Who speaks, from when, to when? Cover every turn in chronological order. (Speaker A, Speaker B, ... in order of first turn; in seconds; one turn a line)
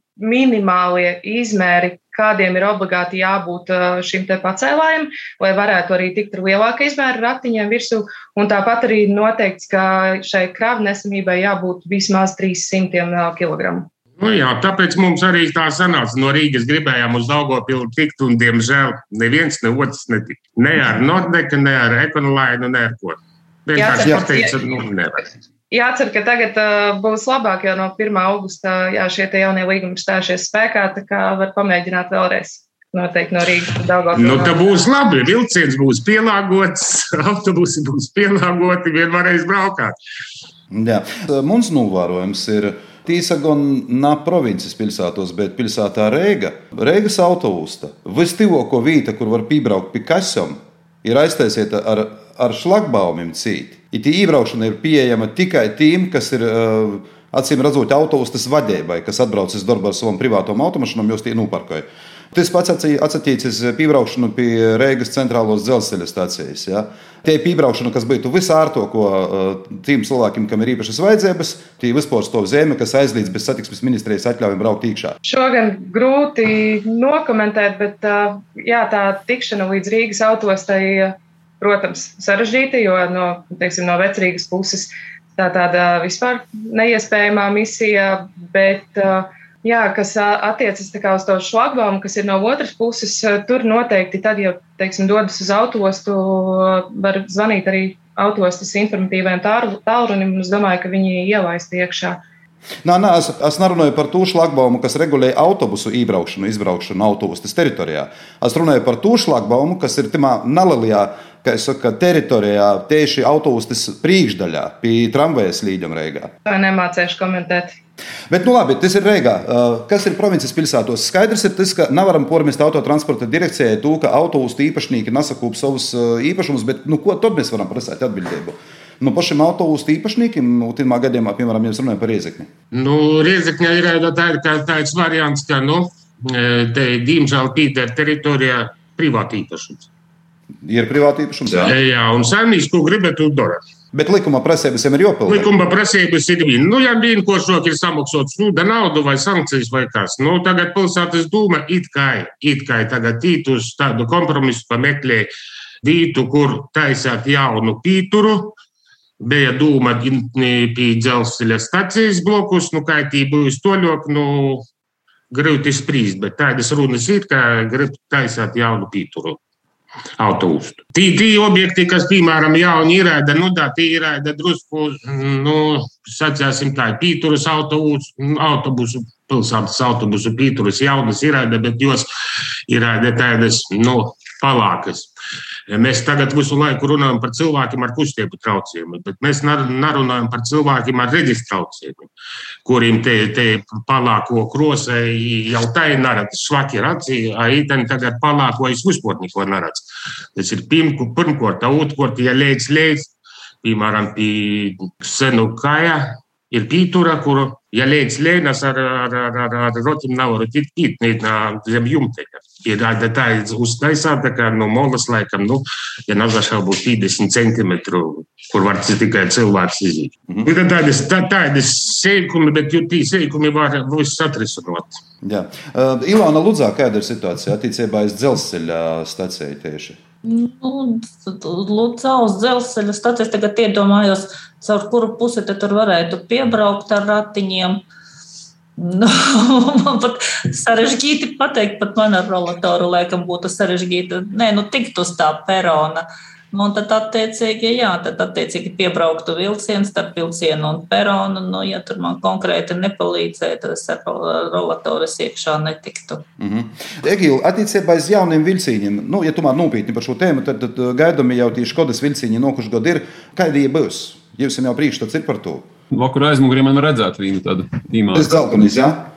Speaker A: 0.2-13.9
Speaker B: 14.2-25.3
Speaker A: 23.8-24.5
Speaker A: 25.7-34.8
Speaker B: 34.1-39.9
Speaker C: 40.7-75.2
Speaker A: 75.2-102.2
Speaker C: 102.8-116.3
Speaker A: 116.5-117.7
Speaker C: 118.3-132.5
Speaker B: 132.7-139.9
Speaker C: 140.6-141.8
Speaker B: 141.6-143.6
Speaker C: 143.9-145.5
Speaker B: 145.3-155.3
Speaker B: 155.8-158.6
Speaker B: 159.2-164.6
Speaker B: 165.3-169.4
Speaker B: 170.2-182.1
Speaker B: 182.7-185.1
Speaker B: 185.7-192.1
Speaker B: 192.6-203.1
Speaker B: 203.6-224.9
Speaker C: 225.2-230.0
Speaker D: 230.2-237.8
Speaker D: 238.8-256.2
Speaker C: 256.4-265.7
Speaker E: 265.9-268.3
Speaker C: 268.1-269.1